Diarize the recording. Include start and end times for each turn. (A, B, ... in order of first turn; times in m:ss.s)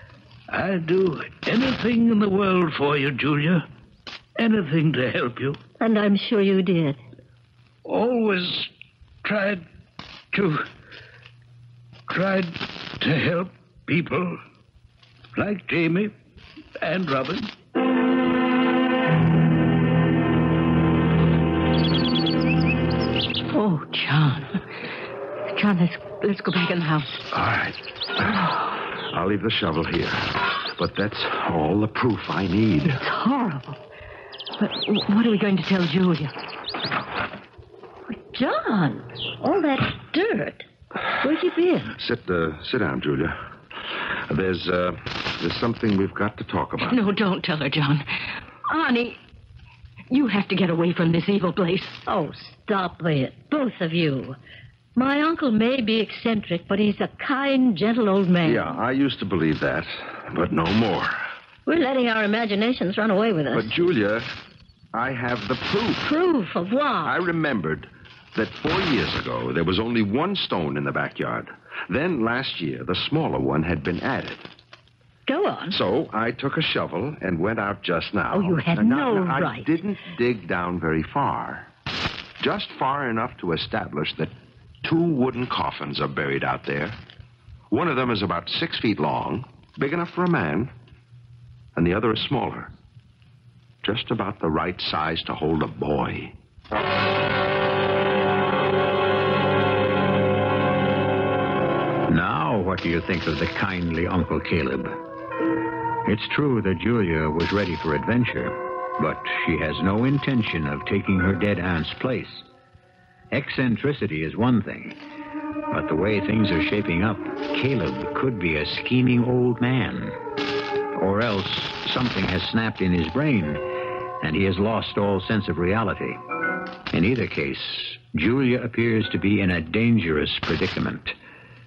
0:00.5-0:03.6 A
0:04.4-0:05.6 A
0:05.8-0:07.0 B
0:07.8-0:08.7 A
0:09.2-0:09.6 A
0:10.3-0:10.6 A
0:12.1-0:14.4 A
0:15.3-0:16.1 A
0:16.8-0:17.5 A
0:23.5-0:24.6 C
0:25.5-0:27.2 C
0:27.3-0:33.0 D
0:33.0-0:33.7 C
0:34.6-0:36.3 C
0:38.1-0:40.6 B
0:41.2-0:41.9 B
0:42.0-0:43.4 D
0:43.9-0:47.0 D
0:46.8-0:49.2 C
0:50.1-0:52.0 C
0:52.0-0:54.4 B
0:55.0-0:58.7 B
0:58.4-1:01.2 D
1:01.6-1:03.7 B
1:03.5-1:04.3 D
1:04.9-1:06.1 D
1:06.0-1:07.2 B
1:07.0-1:14.4 D
1:15.3-1:15.8 B
1:15.7-1:21.7 D
1:18.3-1:19.7 B
1:22.4-1:24.3 D
1:24.8-1:27.0 D
1:27.7-1:30.7 D
1:31.8-1:32.7 D
1:33.8-1:36.3 D
1:42.1-1:45.0 E
1:46.0-1:52.4 E
1:53.3-1:55.0 E
1:55.7-2:00.2 E
2:01.0-2:03.6 E
2:04.2-2:06.2 E
2:06.9-2:11.2 E